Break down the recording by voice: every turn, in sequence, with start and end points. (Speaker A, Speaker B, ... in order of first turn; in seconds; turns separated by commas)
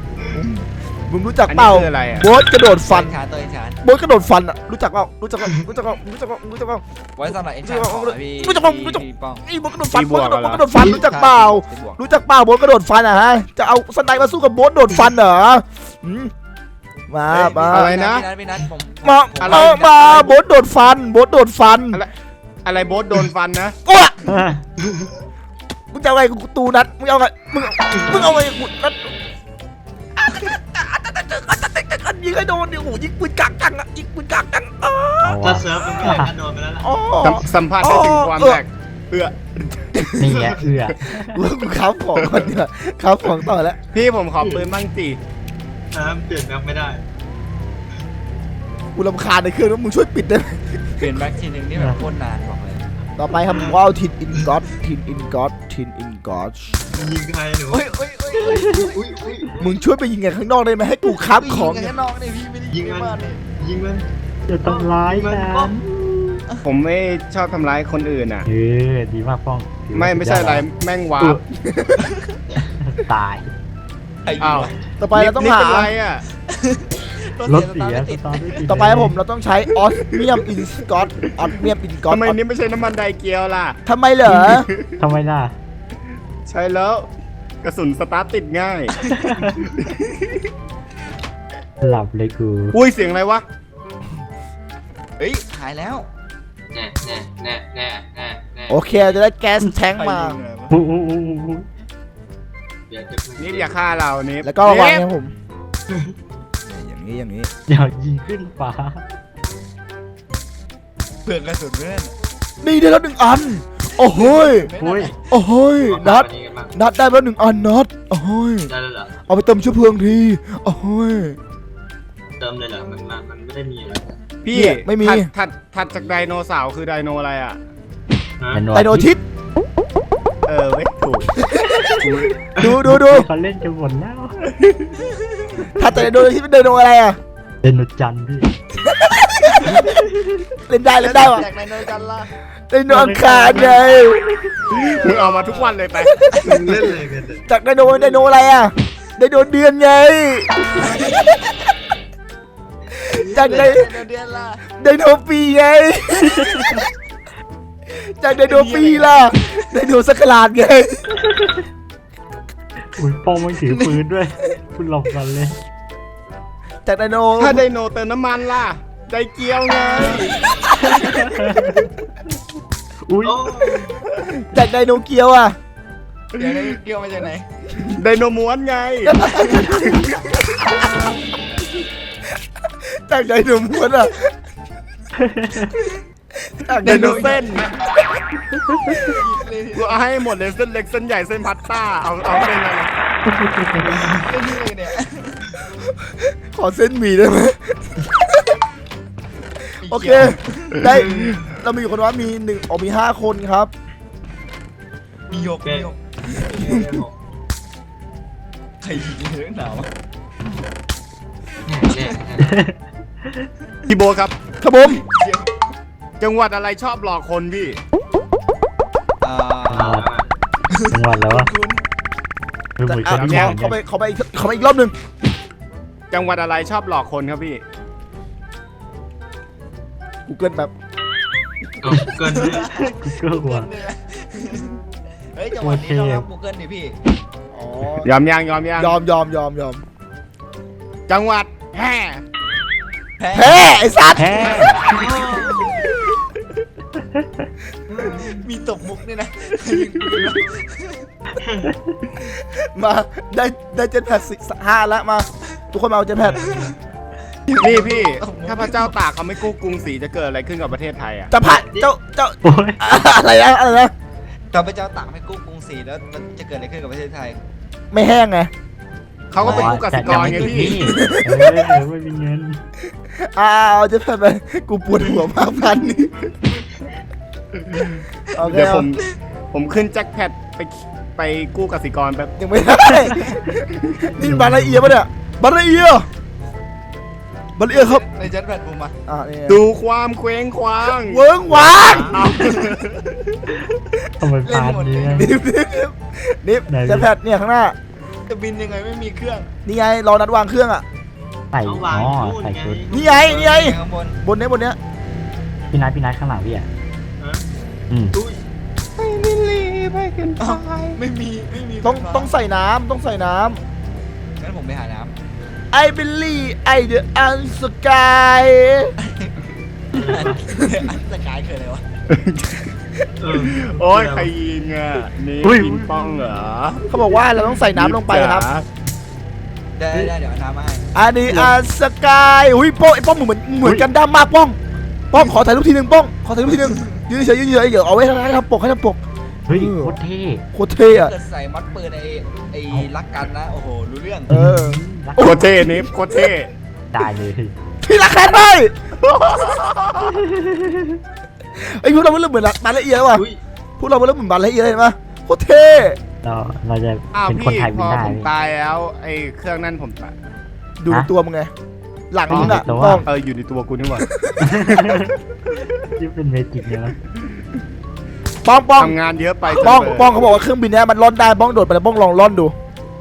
Speaker A: 0.3-3.2, Speaker B: 1.5-2.3, Speaker C: 2.6-3.8, Speaker A: 3.8-6.8, Speaker C: 7.2-9.4, Speaker A: 7.6-16.3, Speaker B: 9.9-10.7, Speaker C: 10.7-12.0, Speaker A: 17.1-17.9, Speaker C: 17.3-20.4, Speaker B: 17.4-18.3, Speaker A: 19.0-22.0, Speaker B: 19.4-19.7, Speaker B: 22.6-23.8, Speaker A: 23.9-24.3, Speaker D: 24.3-24.6, Speaker E: 24.8-25.1, Speaker A: 25.9-29.1, Speaker E: 27.9-28.2, Speaker A: 30.2-35.9, Speaker D: 35.2-36.3, Speaker E: 35.4-36.9, Speaker A: 36.8-38.6, Speaker B: 37.2-40.1, Speaker A: 39.9-40.3, Speaker D: 40.2-41.4, Speaker E: 40.2-40.6, Speaker A: 41.3-43.8, Speaker B: 42.2-42.4, Speaker B: 43.9-45.2, Speaker E: 44.4-44.7, Speaker E: 45.9-47.0, Speaker A: 48.9-51.0, Speaker C: 51.0-52.9, Speaker A: 53.2-56.8, Speaker E: 56.9-59.7, Speaker C: 57.7-58.9, Speaker D: 58.5-58.8, Speaker A: 59.6-61.9, Speaker C: 61.2-63.4, Speaker E: 62.7-64.0, Speaker D: 64.5-66.4, Speaker E: 64.6-65.8, Speaker B: 66.6-68.5, Speaker D: 68.5-70.7, Speaker B: 69.9-71.4, Speaker A: 71.6-72.0, Speaker C: 72.0-72.2, Speaker D: 72.6-73.5, Speaker C: 74.2-74.8, Speaker B: 74.4-76.2, Speaker A: 75.0-75.9, Speaker C: 76.5-78.9, Speaker D: 77.5-79.2, Speaker A: 78.7-82.4, Speaker B: 80.0-80.4, Speaker B: 82.1-85.0, Speaker A: 83.8-84.7, Speaker D: 85.0-85.5, Speaker B: 86.5-87.1, Speaker B: 87.6-89.0, Speaker D: 89.1-89.6, Speaker B: 89.6-90.5, Speaker D: 91.8-92.8, Speaker B: 92.7-93.4, Speaker C: 95.2-96.1, Speaker E: 96.7-99.0, Speaker A: 98.7-100.4, Speaker C: 99.9-100.8, Speaker D: 100.7-101.7, Speaker E: 102.9-103.7, Speaker B: 103.4-105.0, Speaker A: 104.4-105.3, Speaker E: 105.9-106.1, Speaker A: 106.7-107.5, Speaker D: 107.7-109.0, Speaker C: 111.2-112.1, Speaker A: 112.6-114.7, Speaker C: 114.0-115.1, Speaker B: 114.2-115.1, Speaker D: 114.8-115.1, Speaker A: 115.3-118.7, Speaker E: 115.8-116.7, Speaker E: 118.7-119.1, Speaker A: 119.3-121.4, Speaker E: 122.4-124.2, Speaker B: 124.4-127.6, Speaker A: 124.5-125.3, Speaker E: 128.4-128.7, Speaker D: 128.5-129.1, Speaker A: 128.7-129.2, Speaker B: 130.4-131.4, Speaker A: 131.4-131.9, Speaker B: 132.0-132.3, Speaker D: 132.0-134.4, Speaker E: 132.5-132.8, Speaker A: 132.6-133.3, Speaker B: 134.4-135.1, Speaker A: 135.8-137.2, Speaker D: 137.6-138.5, Speaker A: 138.8-139.9, Speaker A: 140.7-141.4, Speaker C: 141.0-142.3, Speaker A: 142.7-144.5, Speaker D: 142.9-143.9, Speaker C: 144.7-145.8, Speaker B: 144.7-146.2, Speaker A: 146.0-146.9, Speaker E: 146.4-147.5, Speaker A: 147.5-151.3, Speaker C: 150.8-151.4, Speaker A: 153.1-153.9, Speaker E: 153.3-153.8, Speaker C: 153.3-154.6, Speaker A: 154.8-156.8, Speaker A: 157.9-161.2, Speaker C: 158.5-159.5, Speaker B: 158.6-159.0, Speaker D: 162.9-165.6, Speaker A: 163.7-163.9, Speaker A: 166.8-167.7, Speaker B: 167.4-170.4, Speaker C: 169.9-171.0, Speaker D: 170.8-171.8, Speaker E: 171.6-171.8, Speaker D: 173.1-173.9, Speaker E: 173.2-174.0, Speaker A: 174.4-175.6, Speaker B: 176.3-176.7, Speaker C: 176.4-177.4, Speaker B: 177.9-180.1, Speaker A: 179.0-180.8, Speaker A: 182.6-184.3, Speaker D: 185.2-185.8, Speaker A: 186.4-187.7, Speaker C: 186.8-187.6, Speaker B: 186.8-187.7, Speaker D: 188.7-189.0, Speaker C: 189.0-189.9, Speaker B: 189.7-192.9, Speaker D: 193.3-194.0, Speaker C: 194.0-195.4, Speaker A: 195.8-198.6, Speaker C: 199.8-200.9, Speaker A: 199.8-203.7, Speaker E: 200.8-201.5, Speaker C: 205.3-206.0, Speaker E: 205.6-207.2, Speaker A: 206.4-207.0, Speaker C: 208.8-209.9, Speaker E: 211.7-212.5, Speaker D: 212.4-213.5, Speaker B: 213.9-214.3, Speaker A: 214.6-215.0, Speaker C: 214.8-215.5, Speaker B: 216.2-217.8, Speaker C: 219.2-220.0, Speaker D: 219.7-220.1, Speaker E: 219.7-220.3, Speaker D: 220.9-221.5, Speaker C: 221.3-221.8, Speaker D: 222.8-223.8, Speaker A: 222.8-224.9, Speaker B: 223.1-223.6, Speaker B: 226.1-227.6, Speaker A: 230.3-230.7, Speaker E: 231.8-232.8, Speaker D: 231.9-233.7, Speaker C: 232.3-234.8, Speaker C: 235.3-236.9, Speaker D: 235.6-236.2, Speaker A: 237.5-238.1, Speaker B: 238.0-238.9, Speaker A: 238.8-239.8, Speaker B: 241.1-242.2, Speaker C: 243.2-245.8, Speaker A: 243.3-244.6, Speaker D: 244.2-245.0, Speaker E: 244.9-245.8, Speaker D: 247.0-247.5, Speaker E: 247.9-248.4, Speaker C: 248.0-251.0, Speaker E: 251.4-251.7, Speaker D: 251.7-251.9, Speaker A: 252.2-256.7, Speaker E: 256.2-256.8, Speaker C: 257.5-259.0, Speaker B: 257.6-261.3, Speaker A: 261.3-263.9, Speaker E: 261.4-261.9, Speaker D: 262.4-262.8, Speaker C: 264.5-267.4, Speaker A: 267.9-268.5, Speaker B: 269.3-271.0, Speaker C: 269.4-270.8, Speaker D: 269.4-272.6, Speaker A: 270.8-271.8, Speaker A: 273.2-276.2, Speaker E: 276.5-276.9, Speaker B: 277.7-282.3, Speaker A: 278.3-278.9, Speaker A: 282.4-286.1, Speaker D: 283.0-283.4, Speaker D: 284.0-284.9, Speaker A: 287.6-288.0, Speaker C: 287.7-288.9, Speaker A: 289.1-289.6, Speaker B: 289.5-293.3, Speaker A: 291.0-292.4, Speaker E: 291.6-292.2, Speaker D: 294.2-295.3, Speaker C: 294.4-295.3, Speaker A: 295.0-297.8, Speaker D: 296.7-297.1, Speaker C: 298.3-299.5, Speaker A: 299.6-300.8, Speaker D: 301.5-302.8, Speaker E: 301.6-303.6, Speaker A: 302.9-304.8, Speaker C: 303.3-304.2, Speaker D: 305.7-306.7, Speaker E: 307.2-307.4, Speaker D: 307.9-308.1, Speaker E: 308.1-308.4, Speaker B: 309.0-311.0, Speaker C: 310.4-312.3, Speaker A: 311.8-313.6, Speaker C: 314.4-315.1, Speaker A: 315.7-318.9, Speaker C: 319.0-319.3, Speaker E: 319.9-320.4, Speaker C: 319.9-321.8, Speaker B: 322.1-322.6, Speaker E: 323.2-324.3, Speaker B: 323.4-326.9, Speaker D: 325.4-326.3, Speaker A: 326.9-328.4, Speaker B: 327.7-328.6, Speaker C: 329.8-330.9, Speaker A: 330.9-334.6, Speaker D: 333.6-333.9, Speaker A: 335.1-340.0, Speaker D: 339.5-340.4, Speaker A: 340.5-341.1, Speaker C: 340.8-344.4, Speaker D: 344.3-345.7, Speaker A: 344.3-345.8, Speaker B: 345.2-346.5, Speaker D: 346.9-347.5, Speaker A: 347.8-348.7, Speaker B: 349.0-350.1, Speaker D: 350.3-351.0, Speaker A: 351.6-353.2, Speaker E: 353.1-353.4, Speaker A: 353.8-356.0, Speaker D: 356.2-358.3, Speaker B: 357.1-360.1, Speaker A: 360.8-361.5, Speaker A: 362.1-363.1, Speaker D: 362.3-363.1, Speaker B: 362.3-364.1, Speaker A: 364.0-364.5, Speaker D: 364.4-365.1, Speaker D: 365.9-366.9, Speaker A: 368.4-372.5, Speaker B: 368.8-370.1